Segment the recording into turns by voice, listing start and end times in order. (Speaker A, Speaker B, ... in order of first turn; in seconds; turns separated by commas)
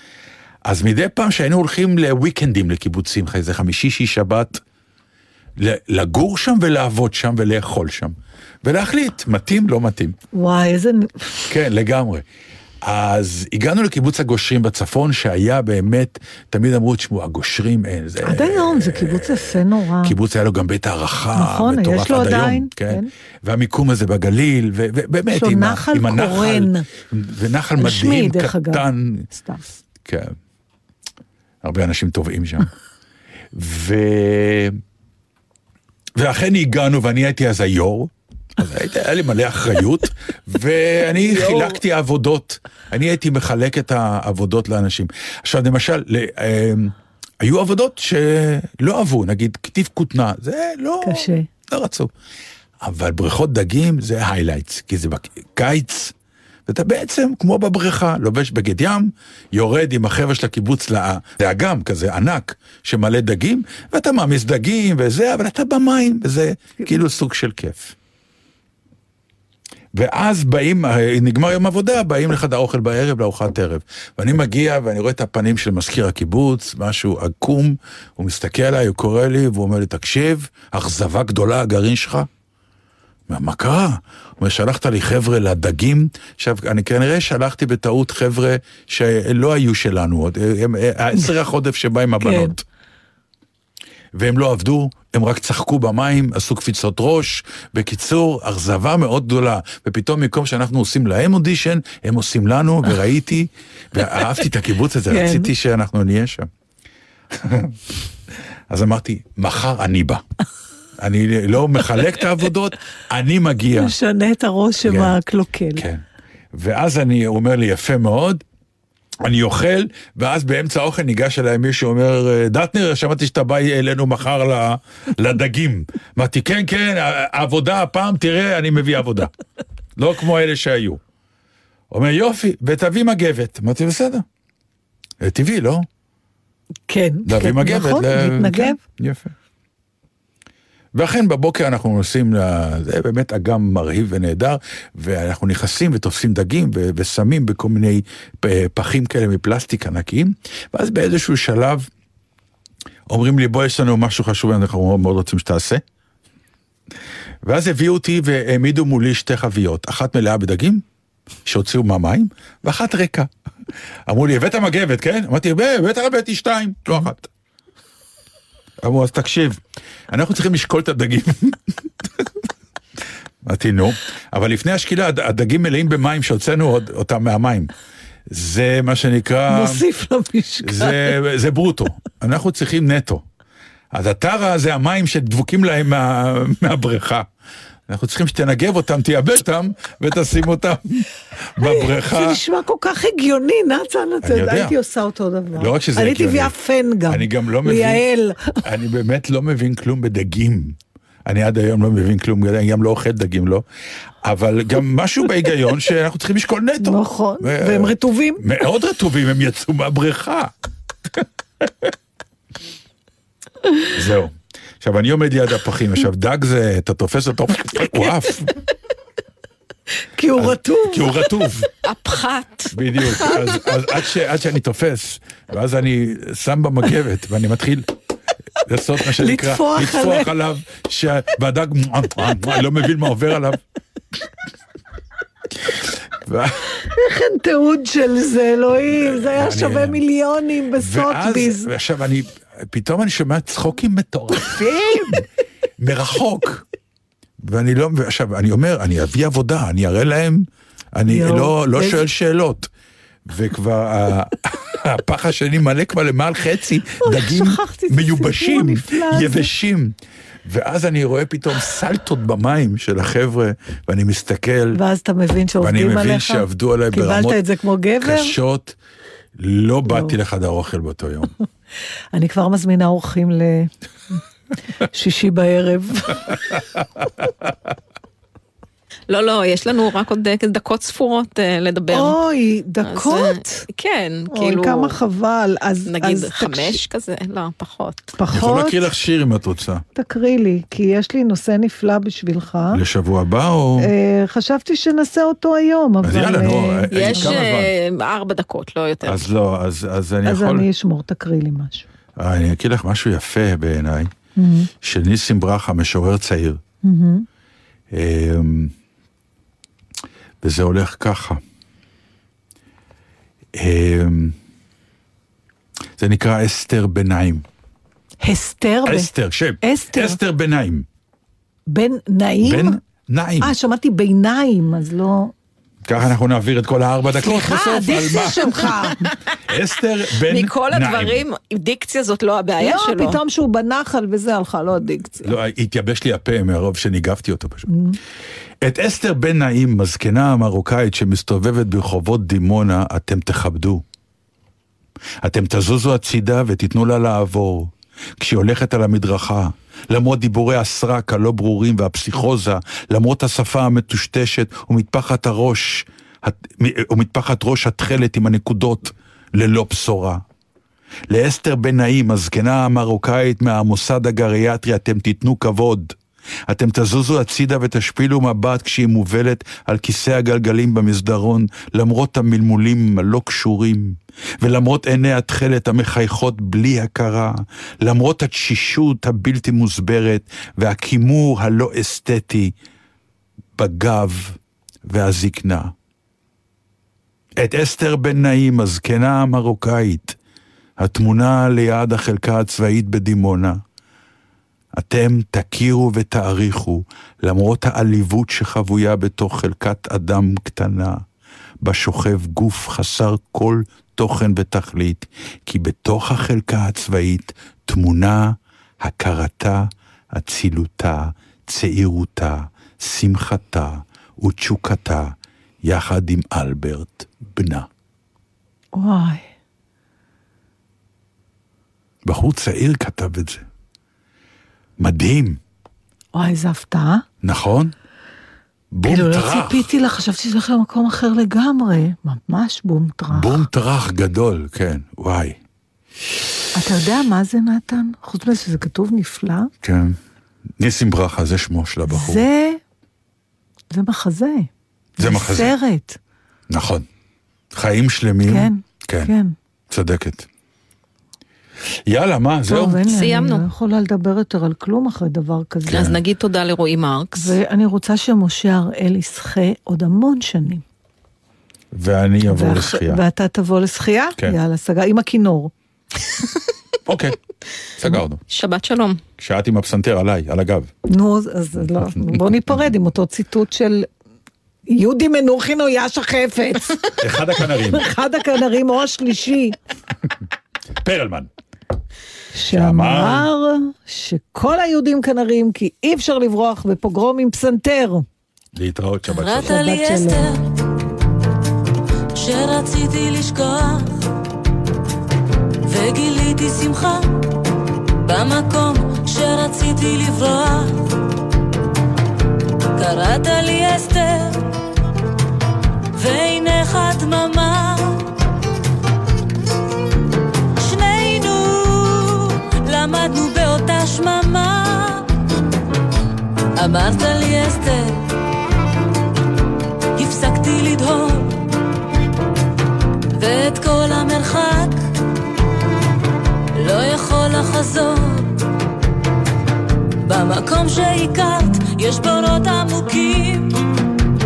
Speaker A: 0.6-4.6, Speaker A: 5.6-10.2, Speaker B: 10.3-11.4, Speaker A: 11.5-12.2, Speaker A: 12.8-29.3, Speaker B: 18.2-20.1, Speaker B: 21.3-23.1, Speaker B: 25.3-26.9, Speaker B: 27.8-29.6, Speaker A: 30.0-30.4, Speaker A: 31.6-32.7, Speaker A: 33.5-34.8, Speaker A: 36.2-52.1, Speaker B: 51.0-51.5, Speaker A: 52.8-56.1, Speaker A: 56.7-67.9, Speaker A: 69.9-82.3, Speaker A: 83.3-92.6, Speaker B: 92.2-92.5, Speaker A: 94.1-106.5, Speaker B: 105.1-105.5, Speaker A: 107.3-107.8, Speaker A: 108.7-110.2, Speaker A: 111.0-113.9, Speaker B: 113.8-115.8, Speaker A: 114.8-115.1, Speaker A: 115.7-118.4, Speaker A: 119.2-129.3, Speaker A: 130.0-131.0, Speaker A: 131.9-134.2, Speaker A: 135.2-135.9, Speaker B: 136.9-138.8, Speaker A: 137.2-139.3, Speaker A: 140.9-151.9, Speaker A: 153.1-155.8, Speaker A: 157.4-160.8, Speaker A: 161.4-163.3, Speaker A: 164.1-167.3, Speaker A: 168.8-172.3, Speaker A: 173.4-177.7, Speaker A: 178.3-179.8, Speaker B: 179.5-181.1, Speaker A: 180.6-183.2, Speaker A: 183.9-187.3, Speaker A: 187.9-192.4, Speaker B: 191.6-198.6, Speaker A: 194.2-194.8, Speaker A: 195.5-196.6, Speaker A: 197.1-198.0, Speaker A: 198.6-203.6, Speaker A: 204.2-210.5, Speaker B: 206.8-208.4, Speaker A: 211.6-211.9, Speaker A: 213.9-218.5, Speaker B: 220.2-221.3, Speaker A: 220.3-221.7, Speaker C: 221.8-223.4, Speaker A: 222.7-227.9, Speaker A: 228.6-233.6, Speaker B: 229.1-230.3, Speaker A: 235.7-236.7, Speaker B: 236.8-241.7, Speaker A: 238.9-240.0, Speaker A: 240.8-245.2, Speaker A: 245.8-246.6, Speaker A: 247.4-252.7, Speaker B: 251.1-252.0, Speaker A: 253.2-264.8, Speaker B: 257.0-259.5, Speaker B: 264.7-268.4, Speaker A: 265.6-267.4, Speaker A: 268.0-268.8, Speaker A: 269.4-271.3, Speaker B: 269.9-270.1, Speaker B: 272.1-273.7, Speaker B: 274.9-276.4, Speaker C: 279.1-282.2, Speaker B: 281.9-283.6, Speaker C: 282.8-284.9, Speaker B: 284.3-286.8, Speaker C: 285.9-288.1, Speaker B: 288.2-288.9, Speaker A: 288.3-289.8, Speaker B: 289.9-292.8, Speaker A: 292.7-293.9, Speaker B: 293.8-297.4, Speaker A: 296.0-297.7, Speaker C: 296.9-299.2, Speaker A: 299.0-300.7, Speaker B: 300.2-301.9, Speaker A: 302.2-304.1, Speaker B: 304.4-304.7, Speaker A: 304.8-306.6, Speaker B: 306.8-307.2, Speaker A: 307.9-308.7, Speaker A: 310.4-311.4, Speaker A: 313.5-314.4, Speaker A: 316.0-317.4, Speaker B: 318.2-319.1, Speaker A: 318.8-320.9, Speaker B: 319.6-320.2, Speaker B: 321.7-322.8, Speaker A: 322.4-323.5, Speaker B: 323.4-325.3, Speaker A: 325.8-331.2, Speaker B: 327.2-329.0, Speaker C: 330.3-333.2, Speaker B: 332.6-335.3, Speaker A: 335.2-337.7, Speaker B: 337.7-338.0, Speaker A: 338.6-343.8, Speaker A: 345.2-360.2, Speaker A: 361.1-366.0, Speaker A: 366.5-382.5, Speaker A: 383.6-385.7, Speaker A: 387.4-390.2, Speaker A: 390.8-393.6, Speaker A: 394.7-401.0, Speaker A: 401.6-417.7, Speaker B: 418.7-419.2, Speaker A: 422.0-423.4, Speaker A: 424.8-425.4, Speaker B: 426.1-427.0, Speaker A: 427.2-427.7, Speaker A: 428.7-429.7, Speaker B: 428.8-433.4, Speaker A: 433.1-435.4, Speaker B: 436.5-439.5, Speaker A: 439.6-440.0, Speaker A: 440.6-442.2, Speaker B: 441.9-442.6, Speaker B: 443.7-446.0, Speaker A: 445.0-445.6, Speaker A: 446.5-446.9, Speaker A: 447.5-449.1, Speaker B: 448.3-449.3, Speaker A: 449.7-450.3, Speaker A: 451.9-452.8, Speaker B: 452.5-456.0, Speaker C: 452.9-453.5, Speaker C: 455.7-457.4, Speaker B: 457.1-460.6, Speaker A: 461.7-463.0, Speaker B: 462.3-465.5, Speaker A: 466.9-467.2, Speaker A: 467.8-468.2, Speaker C: 468.3-469.0, Speaker A: 469.2-470.7, Speaker B: 470.9-473.9, Speaker A: 471.6-472.2, Speaker B: 474.7-479.6, Speaker A: 477.0-477.9, Speaker A: 480.8-481.3, Speaker B: 482.3-488.1, Speaker A: 482.5-483.3, Speaker A: 488.5-489.6, Speaker D: 489.1-490.5, Speaker B: 489.4-490.3, Speaker D: 492.1-494.1, Speaker D: 495.6-497.3, Speaker D: 498.0-500.9, Speaker D: 502.7-504.5, Speaker D: 505.9-508.1, Speaker D: 510.6-515.1, Speaker D: 516.5-518.0, Speaker D: 520.0-521.4, Speaker D: 523.1-524.8, Speaker D: 526.5-528.3, Speaker D: 530.0-533.6